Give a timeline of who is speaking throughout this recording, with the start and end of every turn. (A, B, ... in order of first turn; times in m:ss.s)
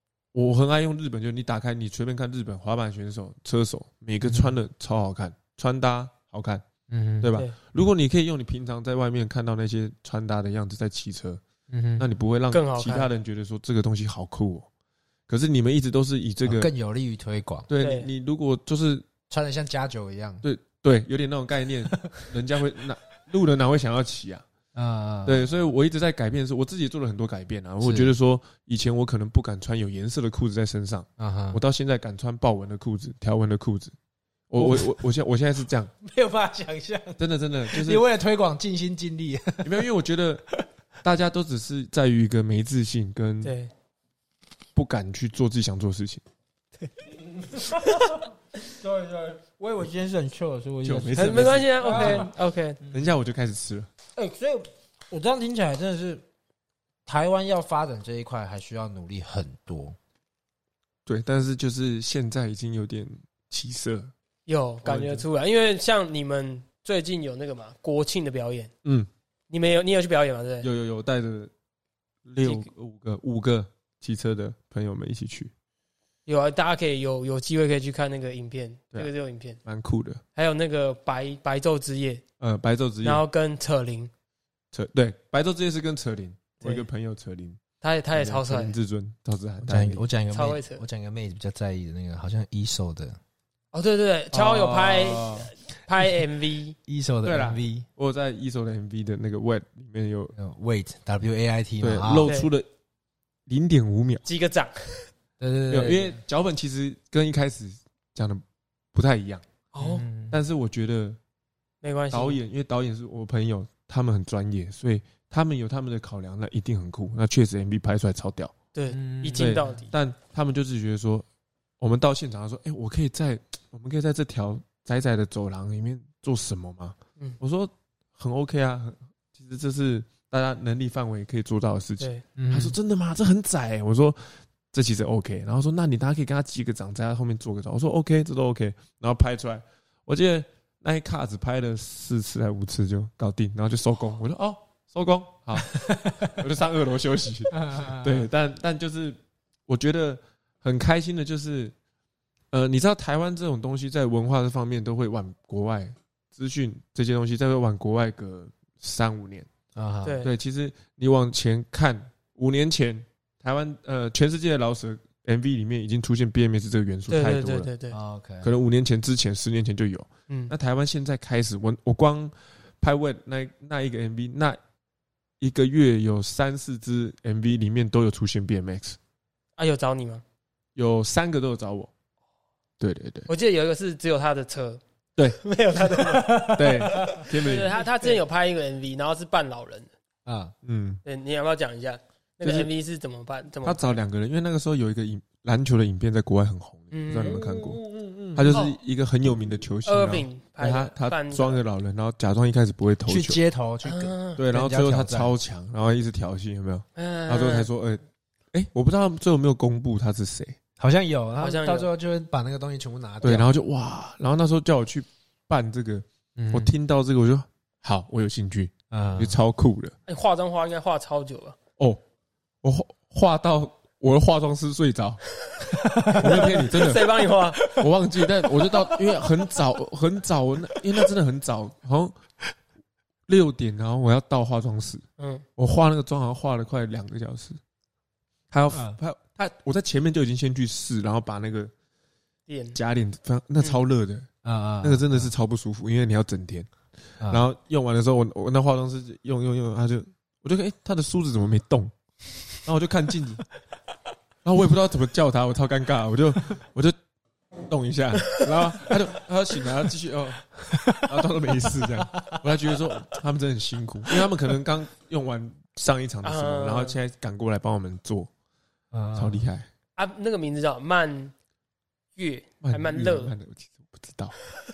0:00.3-0:06.6 A
0:04.2-0:04.6 B
0:06.9-0:07.3 B
0:07.2-0:11.4 A
0:11.7-0:12.1 B
0:12.0-0:14.7 A
0:12.5-0:13.1 C
0:15.3-0:16.7 A
0:16.4-0:17.7 B
0:17.7-0:19.1 A
0:17.8-0:18.1 C
0:19.3-0:20.4 B
0:20.4-0:24.4 A
0:24.7-0:25.5 B
0:25.2-0:33.9 A
0:27.8-0:28.1 B
0:31.2-0:31.6 B
0:34.5-0:35.9 A
0:34.6-0:35.0 B
0:36.0-0:39.9 B
0:37.2-0:38.0 A
0:39.6-0:40.5 A
0:41.0-0:43.5 A
0:43.4-0:43.7 C
0:44.8-0:46.2 A
0:47.1-0:53.1 B
0:47.9-0:48.2 C
0:50.8-0:52.3 A
0:51.2-0:52.8 C
0:52.9-0:53.9 A
0:54.2-0:56.2 B
0:57.0-1:00.0 B
1:01.1-1:04.1 A
1:04.5-1:08.7 C
1:04.8-1:05.3 A
1:08.8-1:09.1 A
1:09.5-1:10.7 C
1:10.6-1:11.5 A
1:12.2-1:15.5 A
1:12.4-1:12.7 C
1:16.2-1:19.6 C
1:19.6-1:20.2 A
1:20.3-1:22.2 C
1:22.4-1:23.2 A
1:23.0-1:24.1 C
1:24.7-1:27.6 A
1:27.8-1:28.8 C
1:28.1-1:30.0 A
1:29.6-1:33.2 B
1:30.3-1:30.8 C
1:33.7-1:36.8 C
1:34.3-1:35.5 A
1:36.9-1:37.8 B
1:37.2-1:40.3 A
1:40.3-1:42.3 B
1:41.8-1:42.7 A
1:42.2-1:42.5 C
1:43.5-1:44.2 A
1:44.2-1:45.1 C
1:45.4-1:46.2 B
1:45.7-1:48.4 A
1:48.9-1:49.4 A
1:49.7-1:50.0 C
1:49.8-1:50.4 B
1:50.3-1:51.2 A
1:51.8-1:52.4 C
1:52.1-1:58.5 A
1:58.7-1:59.9 C
1:58.9-1:59.8 B
1:59.3-2:01.2 A
2:01.8-2:31.7 A
2:12.4-2:12.8 B
2:25.7-2:26.4 B
2:27.5-2:28.3 B
2:32.5-2:39.5 A
2:39.7-2:40.3 B
2:40.0-2:40.3 C
2:40.2-2:47.7 A
2:47.1-2:48.0 C
2:47.9-2:48.5 B
2:48.4-2:54.6 A
2:55.4-2:59.0 A
2:59.6-3:00.2 C
3:00.8-3:01.9 A
3:02.8-3:03.3 A
3:03.3-3:04.8 C
3:05.4-3:09.9 C
3:05.8-3:07.3 B
3:06.5-3:07.8 A
3:10.2-3:10.5 B
3:10.6-3:11.0 A
3:11.0-3:14.0 C
3:12.4-3:12.7 A
3:13.6-3:17.8 A
3:16.9-3:17.4 C
3:17.2-3:18.6 B
3:18.3-3:23.4 A
3:19.8-3:21.6 C
3:23.0-3:25.3 B
3:23.8-3:24.4 C
3:24.4-3:30.6 A
3:27.0-3:27.7 C
3:30.8-3:33.5 B
3:31.4-3:31.9 C
3:33.2-3:39.9 A
3:36.4-3:36.7 B
3:38.9-3:39.4 B
3:40.1-3:41.6 C
3:42.6-3:45.2 A
3:45.5-3:47.6 C
3:45.7-3:47.0 B
3:46.1-3:52.2 A
3:47.6-3:47.8 B
3:48.5-3:49.2 B
3:53.3-3:55.0 A
3:55.2-3:55.4 C
3:55.6-3:57.6 A
3:58.5-4:01.7 A
3:58.7-3:59.0 B
4:02.5-4:02.8 C
4:02.7-4:04.3 A
4:04.4-4:05.3 B
4:04.8-4:06.7 A
4:07.2-4:07.4 B
4:07.3-4:11.9 A
4:12.6-4:13.4 A
4:14.4-4:17.0 A
4:17.7-4:28.3 A
4:20.7-4:22.4 B
4:26.2-4:27.0 C
4:28.9-4:29.4 B
4:29.2-4:29.7 A
4:30.0-4:31.3 C
4:32.2-4:33.3 C
4:32.6-4:34.4 A